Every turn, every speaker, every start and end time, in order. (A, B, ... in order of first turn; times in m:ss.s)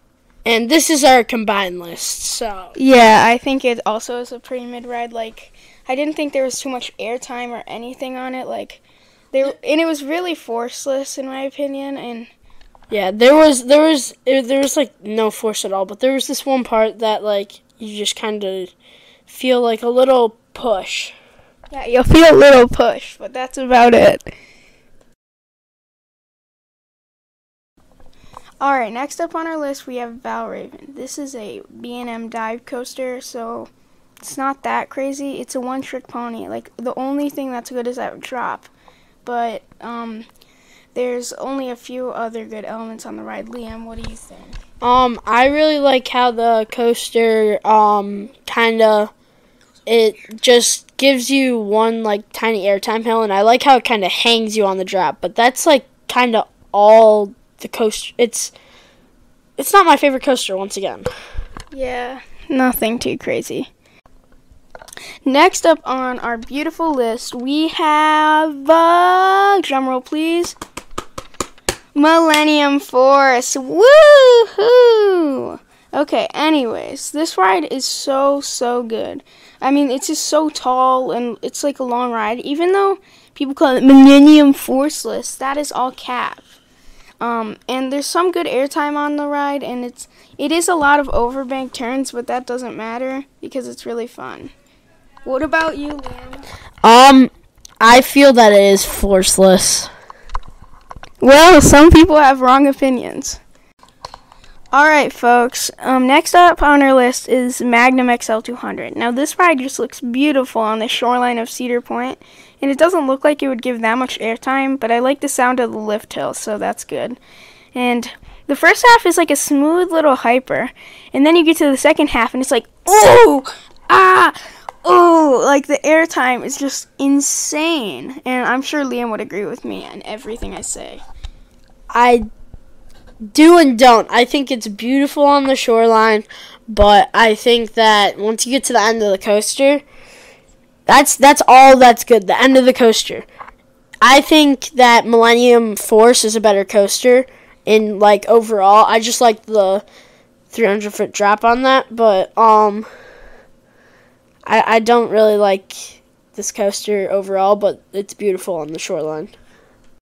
0:00.4-0:02.7 A
0:02.8-0:12.3 B
0:12.9-0:18.7 A
0:19.3-0:21.1 A
0:21.7-0:24.3 B
0:28.6-0:38.7 B
0:39.2-0:40.3 B
0:40.9-0:44.6 B
0:44.8-0:49.1 A
0:49.8-0:58.5 A
0:59.6-1:01.1 A
1:01.7-1:03.7 B
1:05.2-1:10.6 B
1:11.9-1:26.5 B
1:27.2-1:34.5 B
1:35.2-1:36.4 B
1:36.8-1:39.9 A
1:41.2-1:43.4 B
1:44.7-1:57.2 B
1:57.7-2:11.0 B
2:11.9-2:12.2 A
2:13.3-2:19.8 A
2:20.9-2:23.2 A
2:24.0-2:29.8 A
2:30.5-2:32.9 A
2:34.4-2:39.3 A